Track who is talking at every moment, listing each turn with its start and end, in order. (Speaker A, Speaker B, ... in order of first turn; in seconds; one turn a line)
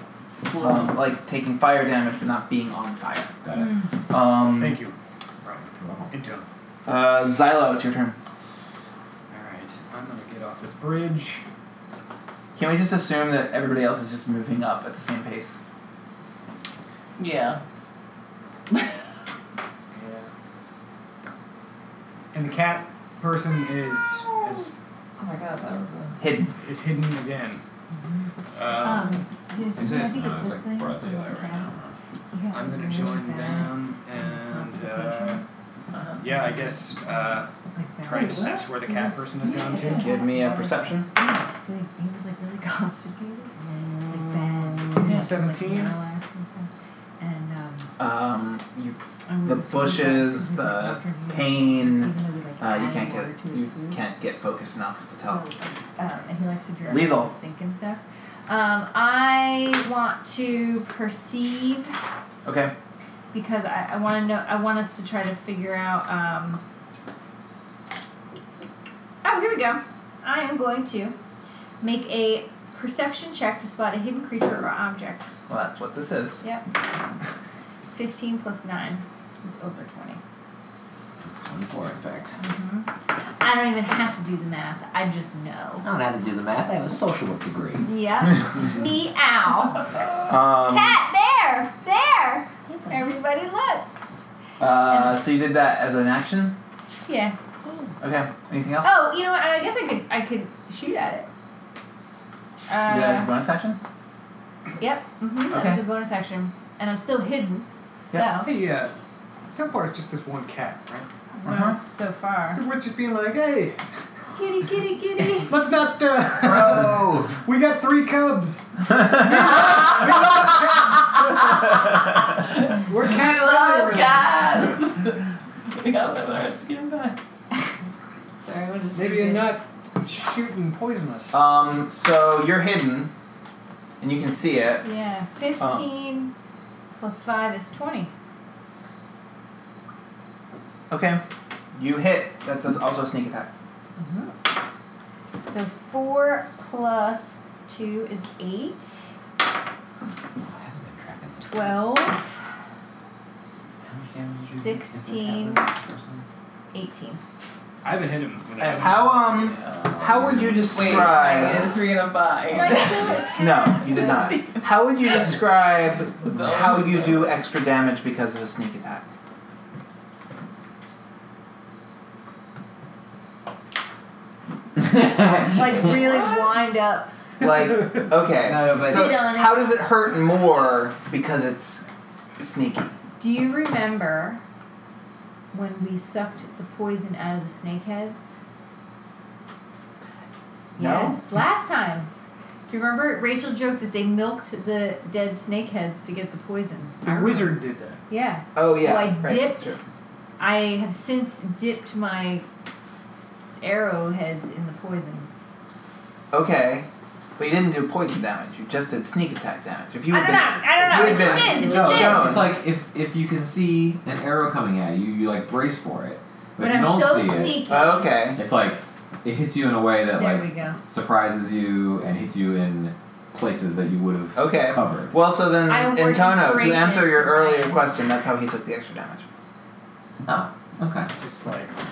Speaker A: 0.5-0.9
Speaker B: 0.5-3.4
Speaker C: 3.4-3.8
Speaker D: 3.5-3.9
Speaker B: 4.1-4.8
Speaker E: 4.4-6.5
Speaker C: 5.8-6.1
Speaker B: 6.9-8.2
Speaker E: 9.3-11.4
Speaker B: 12.6-15.6
Speaker A: 17.2-17.6
Speaker E: 19.9-20.3
Speaker E: 22.3-24.7
Speaker A: 24.2-26.2
Speaker B: 26.2-26.5
Speaker E: 26.6-27.6
Speaker D: 27.9-31.7
Speaker E: 28.5-29.2
Speaker C: 29.8-31.9
Speaker D: 32.3-35.4
Speaker E: 32.5-35.4
Speaker A: 35.9-36.2
Speaker E: 36.2-37.5
Speaker D: 37.1-47.9
Speaker E: 38.0-40.1
Speaker A: 38.2-38.6
Speaker A: 39.4-40.0
Speaker B: 39.9-41.1
Speaker E: 43.6-46.0
Speaker A: 45.0-45.3
Speaker B: 48.0-55.4
Speaker D: 49.3-54.0
Speaker D: 55.2-62.0
Speaker B: 56.9-57.3
Speaker B: 62.5-62.7
Speaker D: 63.3-66.6
Speaker D: 69.2-71.2
Speaker D: 71.8-75.3
Speaker B: 75.5-76.4
Speaker D: 76.4-76.7
Speaker D: 77.9-80.2
Speaker C: 81.2-82.4
Speaker D: 82.4-82.9
Speaker D: 83.4-85.8
Speaker C: 85.8-87.9
Speaker D: 87.8-93.9
Speaker B: 90.3-91.0
Speaker B: 94.6-96.6
Speaker D: 94.9-95.2
Speaker D: 97.1-97.9
Speaker B: 98.0-99.0
Speaker D: 98.8-101.3
Speaker D: 102.7-103.3
Speaker B: 102.9-103.8
Speaker D: 104.8-108.5
Speaker B: 105.5-105.8
Speaker E: 108.1-108.9
Speaker E: 109.5-111.1
Speaker D: 111.3-112.6
Speaker B: 111.5-111.8
Speaker E: 112.5-113.8
Speaker D: 114.3-115.6
Speaker E: 115.3-121.4
Speaker C: 116.4-117.4
Speaker A: 119.4-120.7
Speaker A: 121.2-127.2
Speaker E: 122.9-124.7
Speaker D: 128.4-129.6
Speaker E: 128.9-131.4
Speaker B: 131.3-133.1
Speaker B: 134.0-134.9
Speaker D: 134.8-136.3
Speaker B: 135.6-135.8
Speaker D: 137.0-138.1
Speaker B: 140.9-141.2
Speaker B: 141.8-143.5
Speaker D: 144.0-144.4
Speaker D: 145.4-149.1
Speaker C: 150.4-152.0
Speaker D: 151.4-152.3
Speaker C: 153.8-156.2
Speaker D: 154.5-155.7
Speaker D: 156.7-157.2
Speaker E: 157.8-159.3
Speaker A: 158.6-159.8
Speaker B: 158.8-162.0
Speaker C: 159.7-161.8
Speaker A: 160.6-163.3
Speaker D: 162.5-164.7
Speaker B: 163.3-169.1
Speaker A: 166.2-167.4
Speaker C: 175.0-175.6
Speaker D: 175.3-177.1
Speaker B: 177.4-181.9
Speaker C: 178.4-179.2
Speaker D: 178.7-179.8
Speaker B: 182.4-182.9
Speaker D: 183.2-184.4
Speaker D: 185.5-188.3
Speaker D: 190.8-192.1
Speaker B: 190.8-191.2
Speaker D: 192.7-199.8
Speaker E: 197.0-198.0
Speaker B: 198.6-199.8
Speaker D: 200.4-202.5
Speaker D: 203.6-205.3
Speaker B: 206.3-212.5
Speaker D: 210.1-212.4
Speaker C: 210.9-217.7
Speaker D: 216.6-218.1
Speaker B: 217.7-218.4
Speaker C: 218.3-225.2
Speaker D: 220.1-220.8
Speaker B: 224.3-229.2
Speaker D: 225.7-227.9
Speaker C: 230.2-231.1
Speaker E: 231.1-231.7